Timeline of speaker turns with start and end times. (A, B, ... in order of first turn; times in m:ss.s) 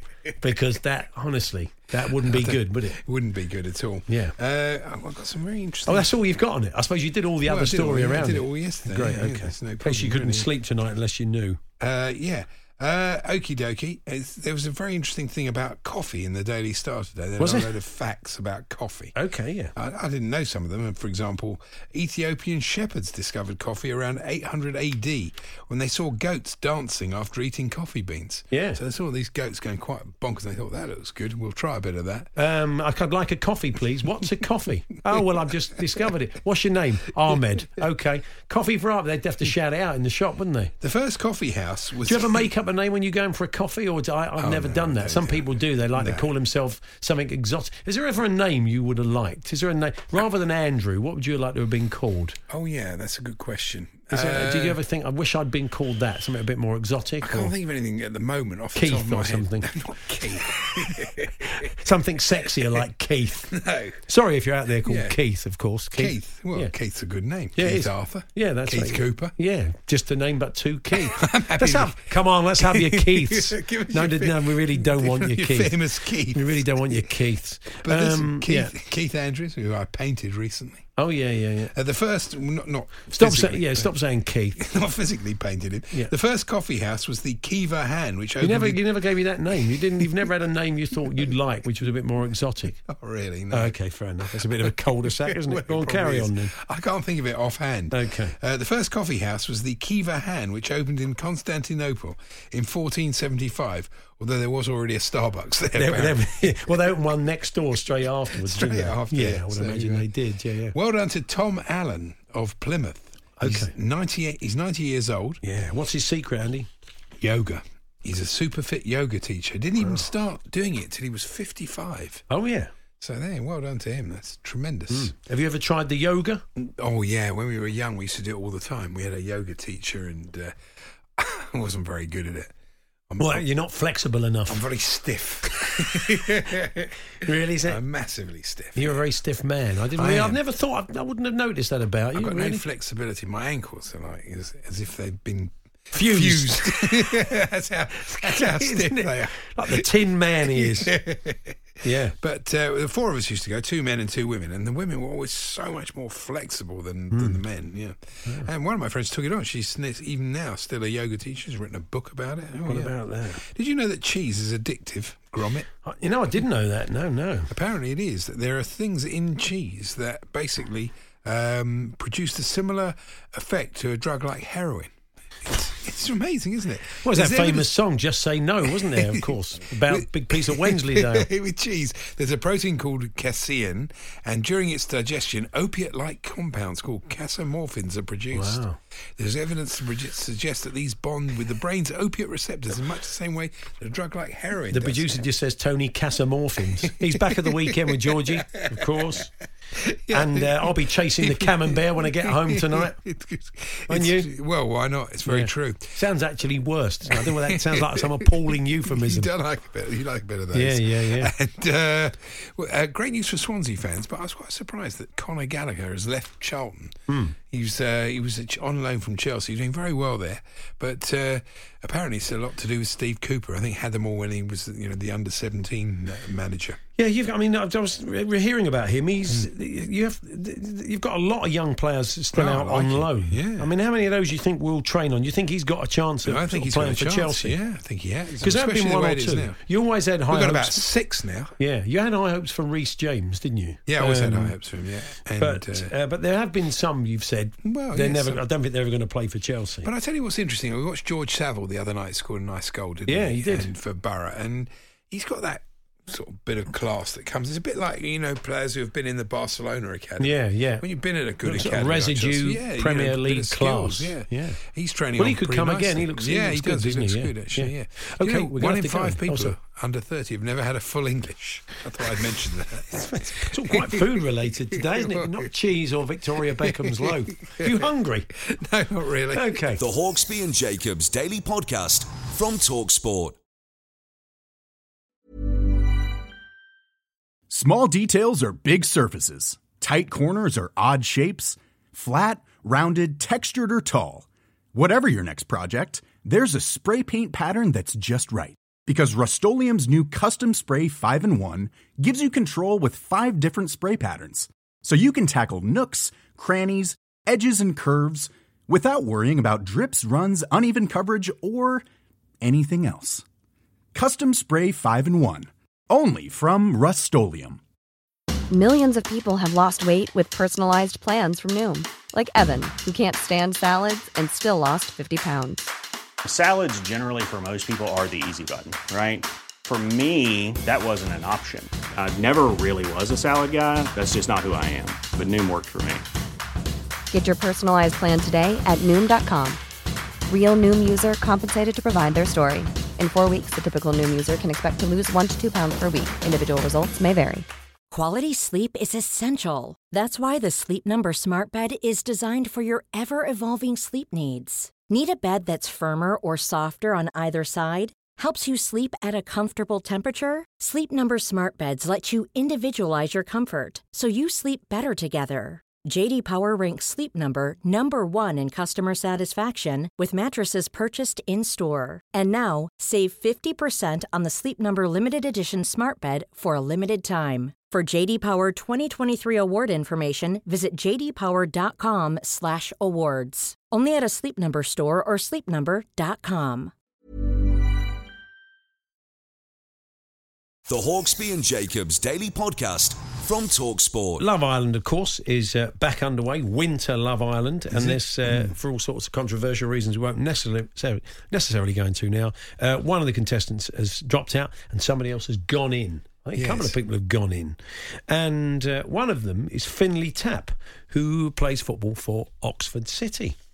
0:00.4-0:03.0 A
0:02.1-0:06.1 B
0:04.1-0:04.3 A
0:05.9-0:11.6 A
0:07.4-0:10.5 B
0:11.8-0:19.1 B
0:17.4-0:17.7 A
0:19.1-0:19.7 A
0:19.8-0:32.3 B
0:28.5-0:28.8 A
0:32.4-0:40.7 A
0:40.8-0:42.5 B
0:42.0-0:52.4 A
0:44.4-0:46.3 B
0:52.5-0:54.8 B
0:54.1-0:57.5 A
0:57.2-1:01.6 B
0:58.7-0:59.7 A
1:01.0-1:03.5 A
1:03.5-1:04.0 B
1:04.1-1:06.7 A
1:04.8-1:05.2 B
1:05.9-1:09.3 B
1:07.6-1:15.7 A
1:11.1-1:17.1 B
1:16.3-1:18.7 A
1:17.8-1:21.0 B
1:21.0-1:21.7 A
1:21.7-1:23.9 B
1:23.1-1:24.6 A
1:24.6-1:29.0 B
1:28.4-1:32.8 A
1:29.6-1:30.2 B
1:32.8-1:33.8 B
1:33.5-1:36.5 A
1:34.3-1:46.8 B
1:37.9-1:38.3 A
1:45.7-1:50.7 A
1:48.3-1:50.1 B
1:50.7-1:55.4 B
1:53.4-1:53.7 A
1:55.4-1:56.7 A
1:57.2-2:02.2 B
1:59.8-2:00.1 A
2:02.3-2:02.7 A
2:03.0-2:05.1 B
2:04.9-2:06.4 A
2:06.6-2:10.5 B
2:11.2-2:12.5 B
2:13.1-2:13.4 B
2:13.2-2:14.6 A
2:14.5-2:16.9 B
2:17.2-2:17.8 A
2:17.6-2:19.0 B
2:18.8-2:22.6 A
2:20.0-2:20.4 B
2:22.1-2:29.9 B
2:25.9-2:27.2 A
2:28.1-2:30.9 A
2:30.4-2:31.6 B
2:31.8-2:32.1 A
2:32.2-2:45.7 B
2:37.1-2:37.4 A
2:42.6-2:43.4 A
2:45.8-2:47.5 A
2:47.5-2:54.9 B
2:55.4-2:57.7 B
2:57.0-3:01.3 A
2:58.7-2:59.3 B
2:59.9-3:08.6 B
3:08.3-3:08.8 A
3:09.2-3:15.2 B
3:14.7-3:19.3 A
3:16.9-3:19.0 B
3:19.8-3:26.0 B
3:20.1-3:23.0 A
3:23.9-3:24.3 A
3:25.2-3:29.3 A
3:27.1-3:28.3 B
3:28.8-3:46.8 B
3:30.5-3:31.3 A
3:37.1-3:37.3 A
3:47.0-3:57.6 A
3:52.3-3:53.7 B
3:56.2-3:59.6 B
3:58.4-4:00.8 A
4:00.3-4:01.5 B
4:01.6-4:04.5 A
4:03.9-4:05.9 B
4:05.4-4:09.9 A
4:07.6-4:08.4 B
4:09.8-4:35.4 B
4:13.1-4:13.7 A
4:20.2-4:20.8 A
4:21.4-4:24.6 A
4:25.2-4:29.5 A
4:33.1-4:38.3 A
4:36.6-4:37.8 B
4:38.4-4:39.6 B
4:39.3-4:39.8 A
4:39.8-4:43.4 C
4:47.5-5:11.8 D
5:12.4-5:13.2 D
5:13.9-5:17.6 D
5:18.5-5:25.7 E
5:26.2-5:36.0 F
5:37.1-5:39.6 E
5:40.3-5:47.5 E
5:47.9-6:26.7 G
6:30.7-6:34.2 C
6:34.2-6:53.4 A
6:37.7-6:38.5 B
6:46.3-6:46.8 B